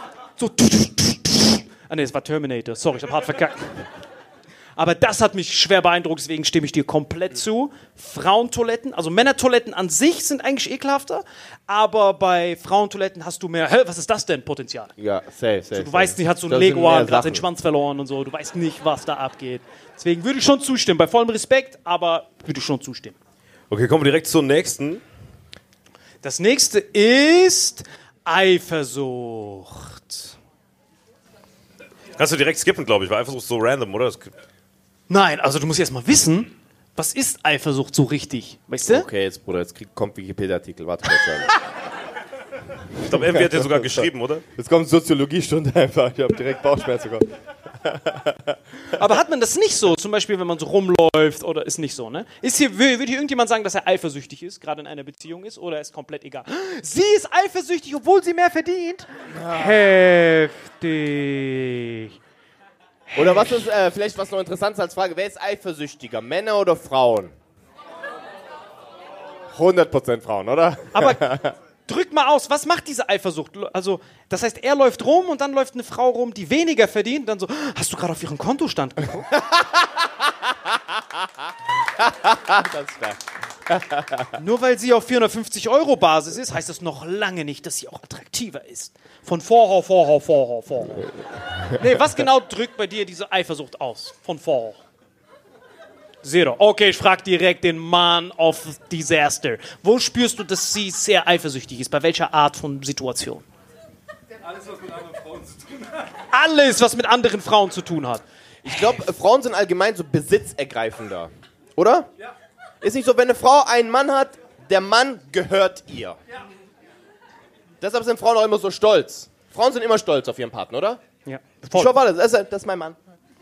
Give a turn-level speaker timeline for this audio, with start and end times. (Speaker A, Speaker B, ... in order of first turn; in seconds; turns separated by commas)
Speaker A: 0.4-3.9, Speaker A: 4.8-14.9, Speaker B: 15.0-17.4, Speaker A: 15.7-23.1, Speaker C: 23.7-25.0, Speaker A: 26.2-30.3, Speaker C: 32.2-34.3, Speaker A: 35.1-39.0, Speaker B: 38.9-41.5, Speaker C: 43.0-44.4, Speaker B: 43.1-48.5, Speaker A: 48.9-62.1, Speaker B: 59.4-59.8, Speaker A: 63.1-63.5, Speaker B: 63.1-67.3, Speaker B: 69.5-71.5, Speaker A: 70.9-71.2, Speaker A: 71.9-79.3, Speaker B: 79.3-81.3, Speaker B: 82.0-84.3, Speaker A: 84.3-91.1, Speaker A: 91.7-94.8, Speaker A: 96.2-103.5, Speaker A: 106.1-109.0, Speaker B: 108.6-112.1, Speaker B: 112.8-116.2, Speaker B: 117.8-121.0, Speaker A: 121.2-121.9, Speaker B: 121.7-123.0